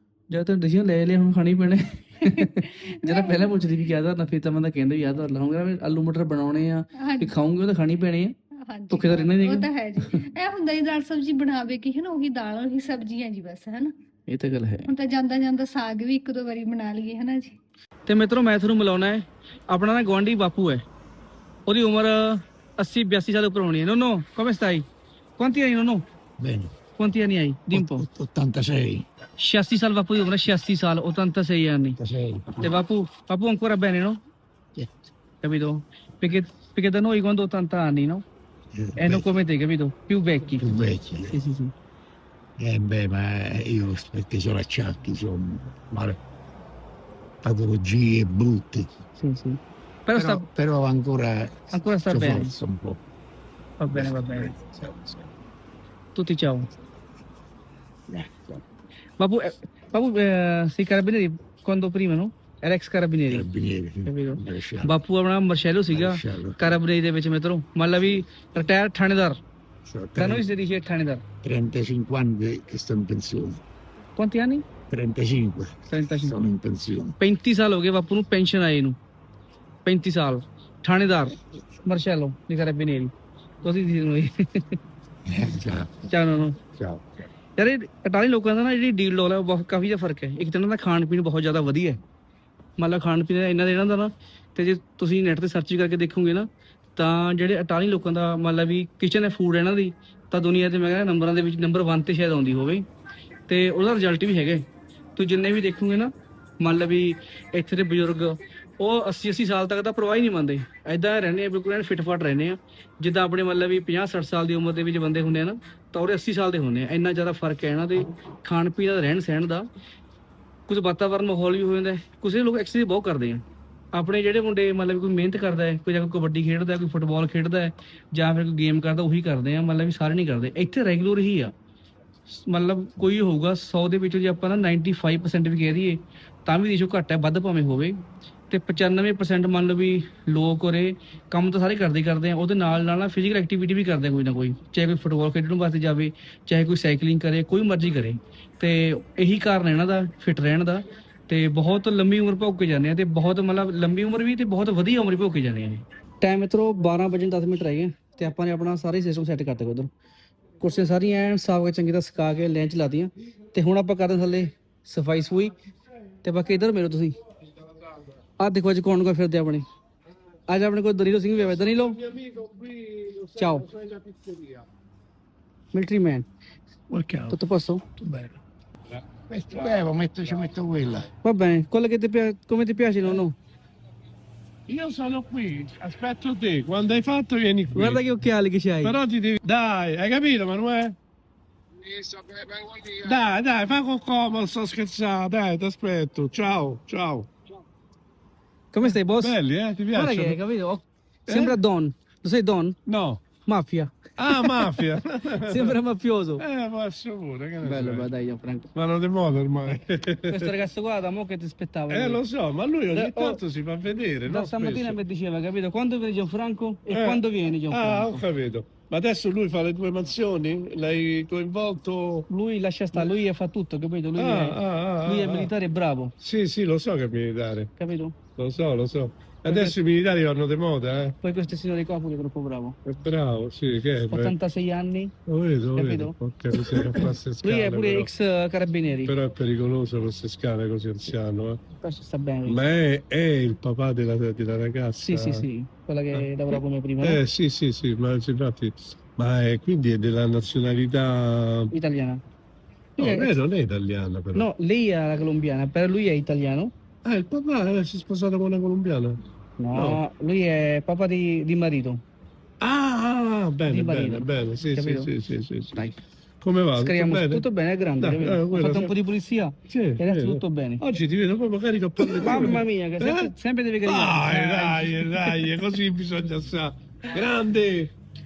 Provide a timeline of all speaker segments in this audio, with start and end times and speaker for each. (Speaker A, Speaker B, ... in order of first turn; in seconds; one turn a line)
Speaker A: 0.3-8.3
Speaker B: 2.2-3.6
Speaker B: 7.0-7.3
Speaker B: 8.6-13.9
Speaker A: 8.9-10.2
Speaker A: 14.3-14.9
Speaker B: 14.9-17.6
Speaker A: 18.1-20.9
Speaker A: 21.7-24.9
Speaker A: 25.4-26.0
Speaker C: 26.4-26.7
Speaker A: 27.0-28.1
Speaker C: 27.7-29.1
Speaker A: 29.4-32.0
Speaker C: 32.0-32.8
Speaker A: 32.6-34.2
Speaker A: 35.4-38.2
Speaker C: 38.7-39.3
Speaker A: 39.0-40.7
Speaker C: 40.6-41.4
Speaker A: 41.3-41.7
Speaker C: 42.6-46.2
Speaker C: 47.4-48.9
Speaker A: 49.2-50.5
Speaker C: 50.1-53.0
Speaker A: 51.7-52.5
Speaker A: 53.8-54.5
Speaker C: 53.9-55.3
Speaker A: 56.1-56.7
Speaker C: 58.1-58.6
Speaker A: 59.2-63.5
Speaker C: 63.3-64.9
Speaker A: 64.0-69.4
Speaker C: 65.9-66.8
Speaker C: 69.9-70.5
Speaker A: 70.2-71.2
Speaker C: 71.4-73.6
Speaker A: 74.2-74.7
Speaker C: 74.9-77.1
Speaker A: 75.9-76.4
Speaker A: 77.2-79.0
Speaker A: 79.8-84.8
Speaker C: 85.3-86.1
Speaker A: 86.1-86.6
Speaker C: 86.8-87.2
Speaker A: 87.6-92.0
Speaker A: 92.8-102.8
Speaker A: 103.5-119.7
Speaker A: 120.7-123.4
Speaker A: 123.9-131.5
Speaker A: 132.3-138.0
Speaker A: 138.5-159.9
Speaker A: 160.6-165.5
Speaker A: 166.2-167.2
Speaker A: 168.4-169.7
Speaker A: 170.5-172.0
Speaker D: 171.6-174.7
Speaker A: 173.4-173.7
Speaker A: 175.7-176.3
Speaker C: 176.9-177.4
Speaker A: 177.3-177.8
Speaker C: 178.0-178.4
Speaker D: 178.9-180.5
Speaker C: 179.3-181.1
Speaker A: 181.2-183.3
Speaker D: 184.7-188.0
Speaker A: 187.8-189.0
Speaker D: 188.8-191.0
Speaker D: 191.9-197.3
Speaker A: 198.7-199.4
Speaker D: 198.8-200.4
Speaker A: 199.9-202.8
Speaker D: 201.3-201.6
Speaker D: 202.9-203.2
Speaker A: 203.5-204.8
Speaker D: 204.2-205.8
Speaker A: 205.4-206.4
Speaker D: 206.4-208.1
Speaker A: 207.6-208.7
Speaker D: 208.8-210.6
Speaker A: 210.3-212.2
Speaker D: 211.9-215.0
Speaker A: 212.9-213.4
Speaker A: 214.3-218.2
Speaker D: 216.9-222.3
Speaker A: 222.3-226.1
Speaker D: 224.2-225.5
Speaker D: 226.2-227.7
Speaker A: 227.8-228.2
Speaker D: 228.4-231.2
Speaker A: 229.5-229.8
Speaker A: 231.2-232.8
Speaker D: 232.8-234.3
Speaker A: 234.1-235.1
Speaker D: 235.3-238.1
Speaker A: 235.8-239.1
Speaker D: 239.1-241.6
Speaker A: 241.8-242.6
Speaker D: 242.5-245.5
Speaker A: 245.0-247.2
Speaker D: 246.1-251.7
Speaker A: 251.7-252.2
Speaker A: 253.0-253.4
Speaker D: 253.0-254.5
Speaker A: 254.3-256.7
Speaker D: 257.1-259.2
Speaker A: 259.6-262.0
Speaker D: 259.7-260.0
Speaker D: 262.6-265.8
Speaker A: 263.7-265.1
Speaker D: 266.4-267.4
Speaker A: 266.8-270.8
Speaker D: 268.0-268.9
Speaker D: 269.7-273.3
Speaker A: 272.2-275.6
Speaker D: 273.8-277.9